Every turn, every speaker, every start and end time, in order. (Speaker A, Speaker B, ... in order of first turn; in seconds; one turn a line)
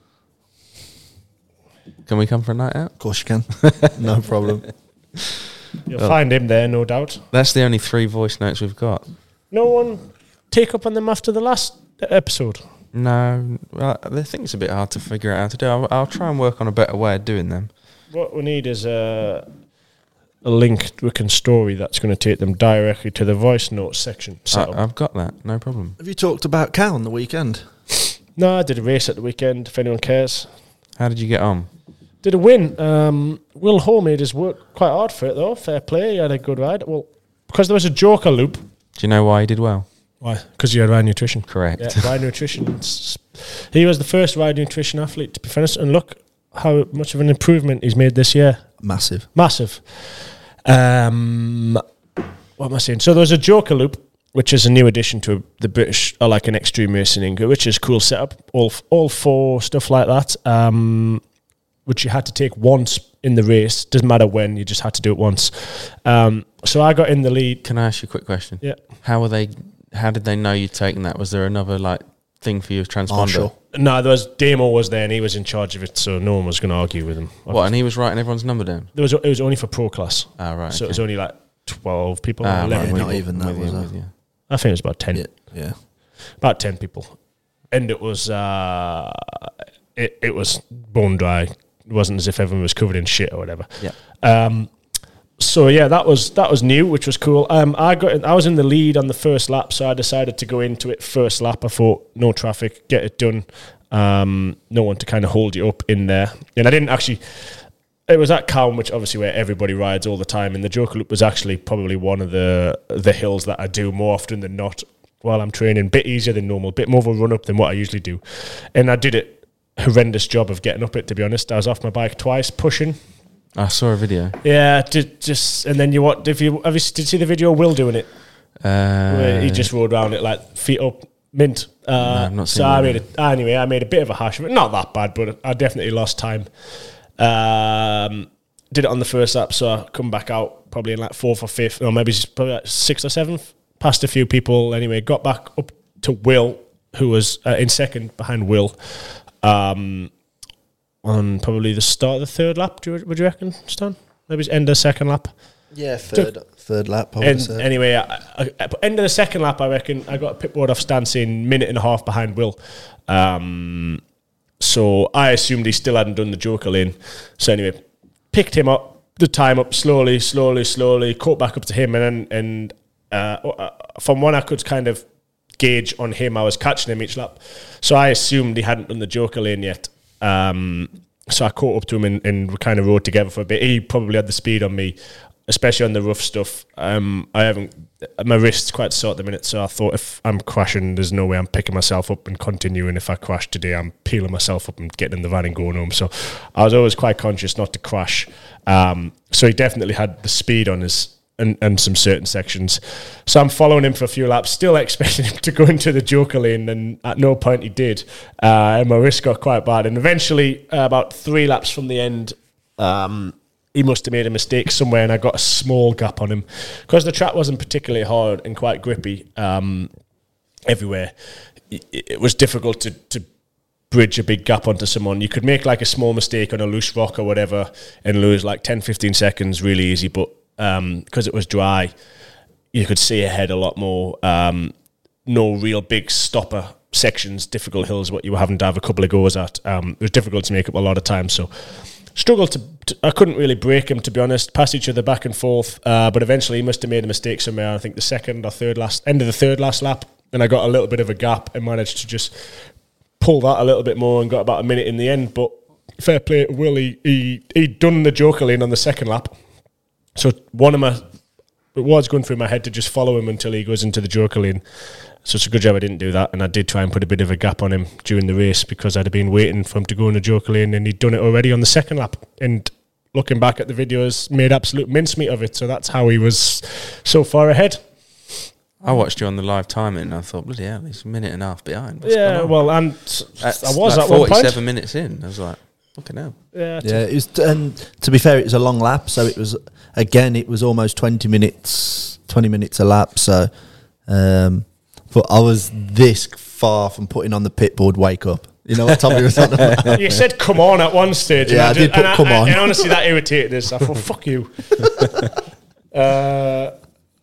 Speaker A: 2.0-2.9
Speaker B: 3.0-4.6
Speaker A: 3.6-3.9
Speaker C: 5.9-7.2
Speaker A: 7.3-9.1
Speaker C: 9.5-12.6
Speaker A: 12.9-17.7
Speaker C: 18.1-19.4
Speaker C: 20.4-24.8
Speaker A: 24.5-26.0
Speaker B: 26.0-27.6
Speaker C: 28.4-30.5
Speaker A: 31.0-31.7
Speaker C: 32.2-38.6
Speaker A: 39.0-39.9
Speaker C: 40.2-48.6
Speaker A: 41.5-42.1
Speaker B: 48.8-49.3
Speaker C: 49.3-51.8
Speaker C: 52.6-61.2
Speaker C: 61.9-67.6
Speaker A: 67.6-73.5
Speaker B: 73.1-73.5
Speaker C: 73.7-77.7
Speaker A: 77.5-78.9
Speaker C: 78.9-83.2
Speaker A: 80.4-81.0
Speaker A: 82.4-84.1
Speaker B: 82.7-83.9
Speaker C: 84.5-85.3
Speaker B: 85.1-85.8
Speaker C: 86.4-87.2
Speaker C: 87.7-94.7
Speaker C: 95.4-123.0
Speaker A: 123.5-124.4
Speaker C: 124.4-128.1
Speaker A: 128.6-129.7
Speaker C: 129.1-136.5
Speaker A: 132.0-133.0
Speaker C: 137.2-150.1
Speaker C: 151.0-155.3
Speaker B: 155.7-157.7
Speaker C: 157.2-162.6
Speaker C: 163.1-164.0
Speaker C: 164.6-175.0
Speaker C: 175.6-219.9
Speaker C: 220.7-221.1
Speaker C: 221.7-223.2
Speaker C: 223.9-231.9
Speaker C: 232.7-234.7
Speaker C: 235.2-241.5
Speaker C: 242.1-252.3
Speaker C: 253.2-259.4
Speaker C: 260.1-261.0
Speaker C: 261.7-264.6
Speaker C: 265.2-278.4
Speaker A: 278.8-282.5
Speaker C: 282.0-284.6
Speaker A: 283.4-286.3
Speaker C: 286.5-287.0
Speaker B: 286.8-293.5
Speaker B: 294.1-300.2
Speaker C: 299.9-304.9
Speaker B: 301.4-302.9
Speaker C: 305.9-306.7